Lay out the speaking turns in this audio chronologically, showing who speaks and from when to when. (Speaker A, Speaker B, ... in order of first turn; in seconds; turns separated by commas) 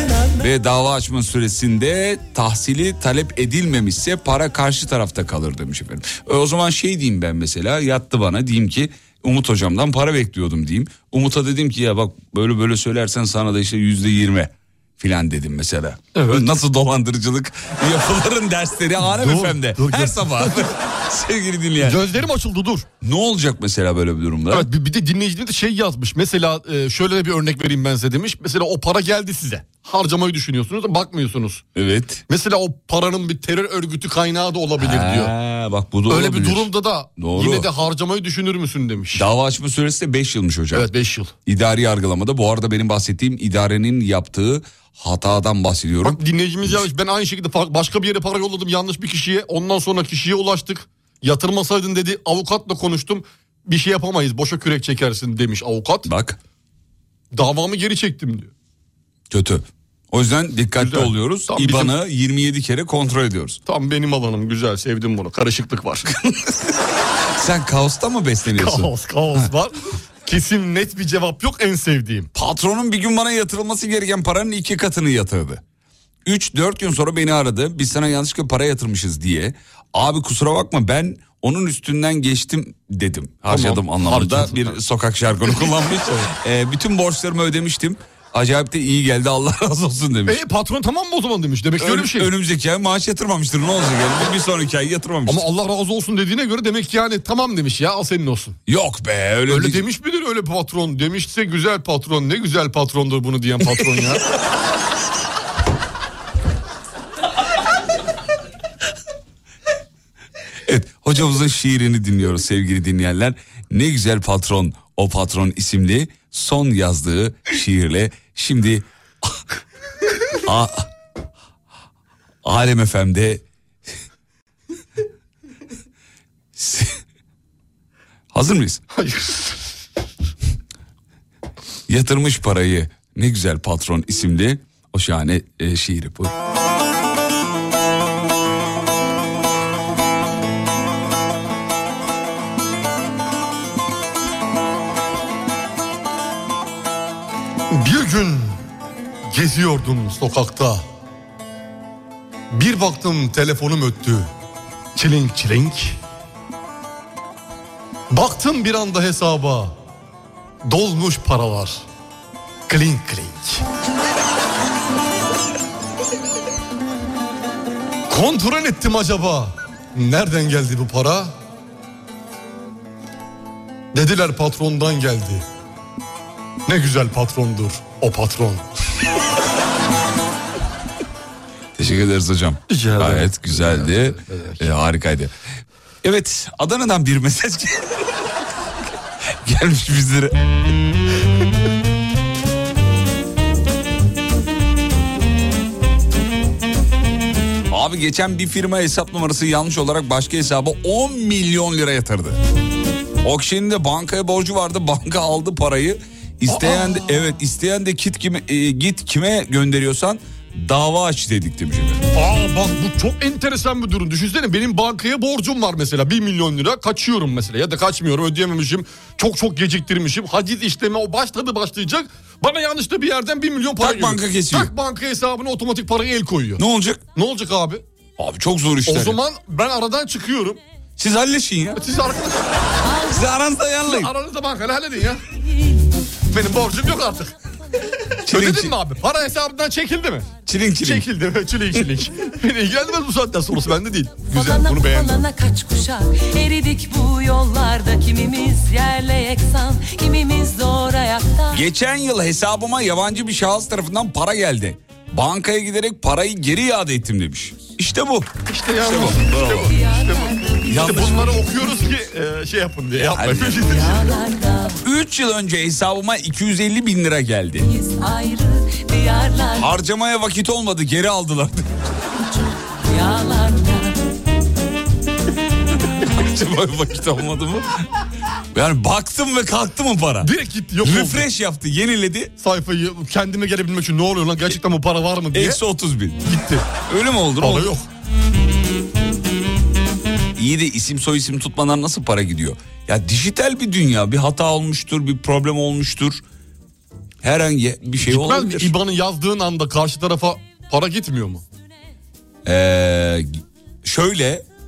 Speaker A: 0.4-22.0, Speaker B: 16.2-16.5, Speaker B: 19.0-20.7, Speaker B: 21.8-22.9, Speaker A: 23.0-24.7, Speaker B: 24.5-31.6, Speaker A: 31.8-32.2, Speaker B: 32.3-35.3, Speaker A: 34.8-37.7, Speaker B: 36.1-39.3, Speaker A: 39.1-40.9, Speaker B: 40.7-41.3, Speaker A: 41.5-46.9, Speaker B: 46.0-56.1, Speaker A: 56.1-56.4, Speaker B: 57.3-58.5, Speaker A: 59.3-63.6, Speaker B: 60.8-61.9, Speaker B: 63.7-66.1, Speaker A: 66.1-66.8, Speaker A: 67.3-69.5, Speaker B: 68.5-72.3, Speaker A: 72.3-75.6, Speaker A: 76.2-90.4, Speaker B: 83.5-84.8, Speaker B: 85.4-86.3, Speaker B: 90.3-92.3, Speaker A: 91.8-95.5, Speaker B: 95.3-98.6, Speaker A: 98.7-99.8, Speaker B: 99.5-104.2, Speaker A: 110.7-118.9, Speaker A: 120.4-120.9, Speaker A: 122.4-123.4, Speaker A: 126.5-127.0, Speaker A: 128.3-128.8, Speaker B: 128.9-129.6, Speaker A: 131.9-136.3, Speaker B: 147.7-148.6, Speaker B: 149.3-150.8, Speaker B: 152.5-154.3, Speaker B: 154.9-156.0, Speaker B: 158.1-159.8, Speaker B: 160.7-161.8, Speaker B: 162.7-163.6, Speaker B: 168.1-171.3, Speaker B: 173.9-175.4, Speaker B: 176.7-178.7, Speaker A: 181.8-185.3, Speaker B: 182.7-184.6, Speaker A: 186.0-188.0, Speaker A: 189.4-190.4, Speaker A: 197.7-202.4, Speaker A: 203.2-212.1, Speaker B: 206.5-207.1, Speaker B: 212.1-226.6, Speaker A: 223.8-224.7, Speaker A: 226.6-227.0, Speaker B: 227.2-227.8, Speaker A: 228.2-229.2, Speaker B: 228.9-230.6, Speaker A: 231.0-231.8, Speaker B: 231.8-232.5, Speaker A: 233.0-234.1, Speaker B: 233.9-235.2, Speaker B: 236.3-237.3, Speaker A: 238.3-238.8, Speaker B: 238.3-245.2, Speaker A: 240.5-241.1, Speaker C: 244.3-251.6, Speaker A: 251.5-259.8, Speaker B: 258.5-264.1, Speaker C: 259.7-261.1, Speaker A: 260.7-261.3, Speaker A: 263.0-263.8, Speaker C: 263.9-264.8, Speaker A: 264.8-267.7, Speaker C: 267.6-269.7, Speaker A: 269.6-271.7, Speaker C: 272.8-274.0, Speaker A: 276.0-277.8, Speaker A: 278.5-280.3, Speaker B: 280.2-281.3, Speaker A: 280.8-282.3, Speaker B: 282.4-285.6, Speaker A: 285.3-287.7, Speaker B: 286.3-286.7, Speaker B: 287.4-287.9, Speaker A: 290.4-296.2, Speaker A: 297.2-298.7, Speaker B: 298.0-301.4, Speaker A: 302.4-304.4